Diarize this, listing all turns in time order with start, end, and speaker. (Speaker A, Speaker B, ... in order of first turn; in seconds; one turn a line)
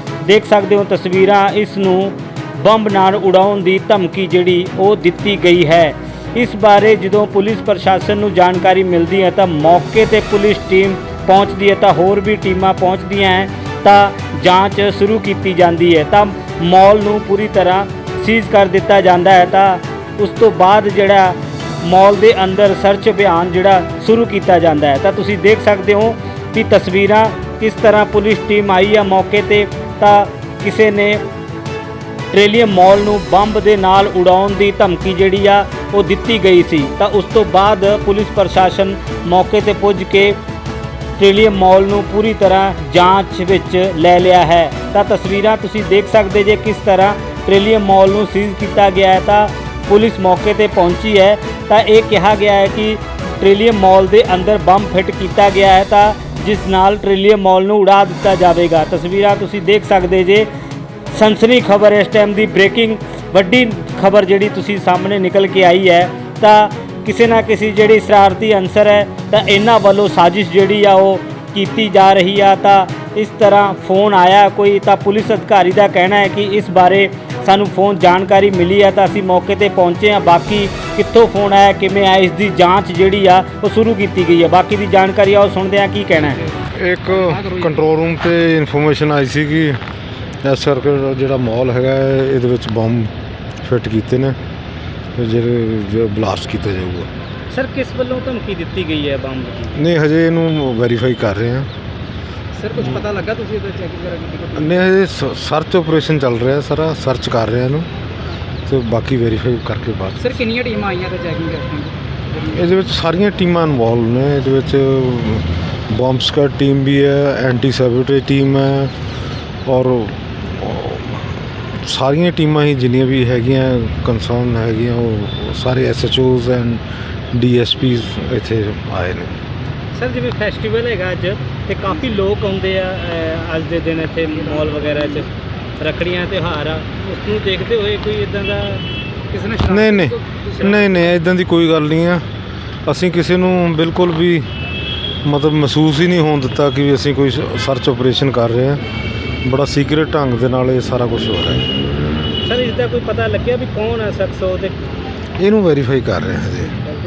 Speaker A: 0.2-31.2
Speaker A: 32.3-40.4
Speaker A: 41.2-60.5
Speaker A: 61.1-86.4
Speaker B: 86.7-89.8
Speaker C: 87.1-87.8
Speaker B: 90.4-93.1
Speaker B: 93.6-94.4
Speaker B: 95.2-97.1
Speaker A: 97.5-99.8
Speaker B: 99.7-101.7
Speaker C: 102.5-104.8
Speaker B: 104.6-107.9
Speaker B: 108.7-110.4
Speaker C: 110.2-112.7
Speaker B: 112.5-118.9
Speaker B: 119.7-121.2
Speaker B: 121.8-129.3
Speaker A: 129.9-138.8
Speaker C: 134.4-135.2
Speaker C: 139.3-141.0
Speaker B: 139.6-142.2
Speaker B: 142.8-144.5
Speaker B: 145.2-148.8
Speaker B: 149.4-151.7
Speaker A: 152.4-154.7
Speaker B: 155.4-156.8